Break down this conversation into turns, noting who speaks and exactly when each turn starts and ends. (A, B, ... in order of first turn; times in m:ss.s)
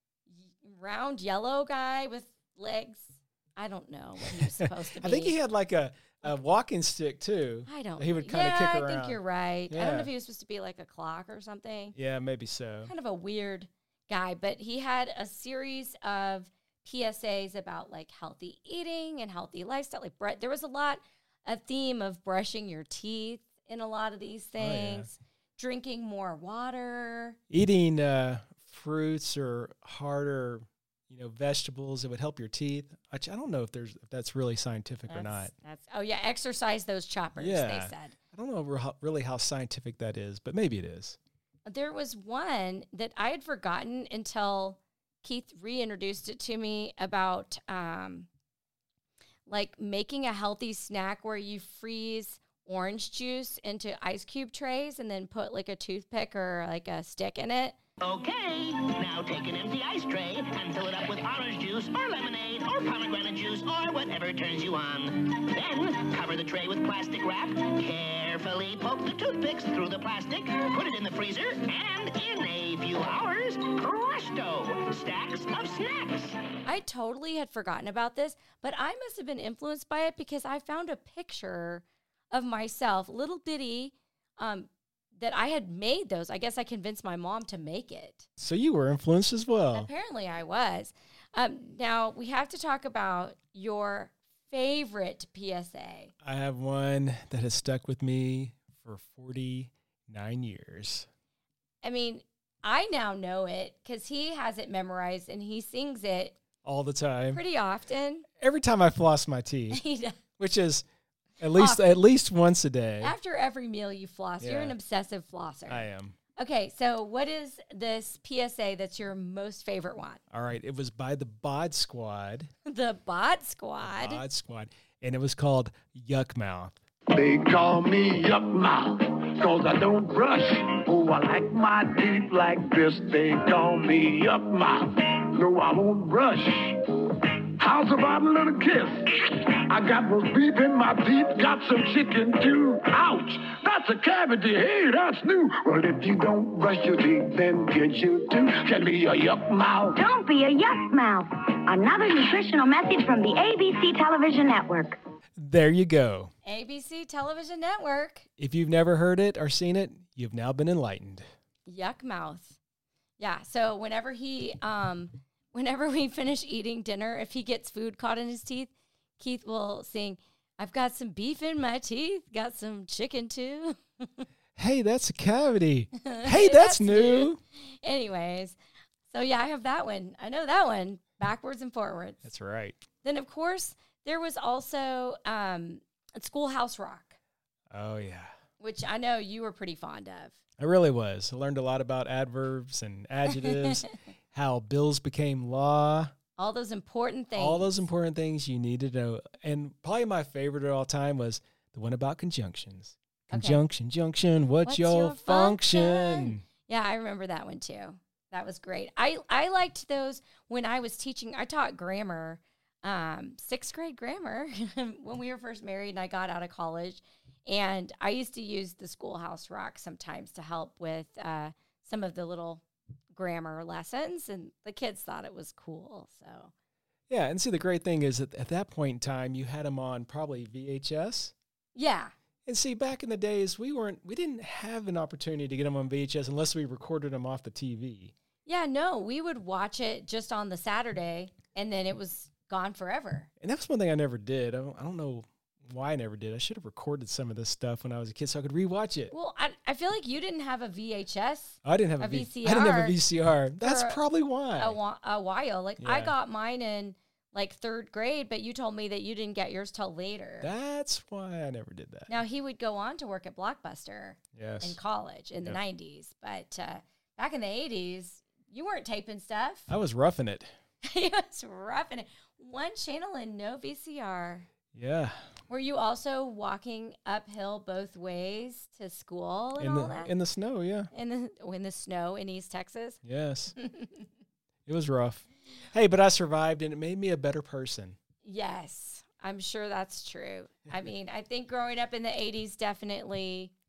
0:00.3-0:05.4 A
0:04.5-0:10.1 B
0:07.7-0:11.9 A
0:11.9-0:12.9 B
0:12.8-0:27.4 A
0:24.6-0:25.1 B
0:27.5-0:35.5 B
0:35.1-0:38.2 A
0:37.4-0:41.2 B
0:41.6-0:48.3 A
0:49.5-0:57.8 A
0:58.0-1:16.4 C
1:16.6-1:28.2 A
1:28.4-1:29.9 B
1:29.7-1:36.1 A
1:36.2-1:41.1 B
1:41.8-1:46.4 A
1:46.6-1:47.4 B
1:47.3-1:48.2 A
1:48.4-1:49.8 B
1:49.7-1:50.2 A
1:50.4-1:50.8 B
1:51.4-1:53.1 B
1:51.5-1:51.9 A
1:53.0-2:00.2 A
1:54.4-1:54.7 B
1:55.7-1:56.2 B
2:00.3-2:02.5 B
2:02.6-2:04.2 A
2:03.8-2:06.8 B
2:07.1-2:30.0 D
2:30.0-2:35.0 E
2:35.4-2:36.3 B
2:36.4-2:38.3 A
2:38.4-2:41.3 B
2:41.6-2:42.6 A
2:43.2-2:54.2 A
2:54.6-2:57.4 B
2:56.0-2:58.6 A
2:59.1-3:02.3 A
3:02.2-3:02.8 B
3:03.0-3:07.2 A
3:07.7-3:08.3 B
3:08.6-3:10.4 A
3:10.6-3:16.1 B
3:13.3-3:13.8 A
3:16.4-3:17.7 A
3:17.3-3:26.4 B
3:23.3-3:23.6 A
3:24.6-3:46.5 A
3:47.1-3:51.3 B
3:51.7-3:52.1 A
3:52.4-3:58.1 B
3:58.4-4:03.3 A
4:03.4-4:09.1 B
4:09.1-4:13.0 A
4:11.6-4:14.8 B
4:13.6-4:14.0 A
4:14.6-4:20.5 A
4:15.8-4:16.1 B
4:20.4-4:22.1 B
4:22.1-4:29.7 A
4:24.4-4:24.8 B
4:29.7-4:30.5 B
4:30.8-4:34.5 A
4:34.7-4:35.3 B
4:35.5-4:40.1 A
4:39.6-4:40.9 B
4:40.9-4:43.0 A
4:43.0-4:43.6 B
4:43.6-4:44.0 A
4:44.7-4:48.0 B
4:48.2-4:53.5 A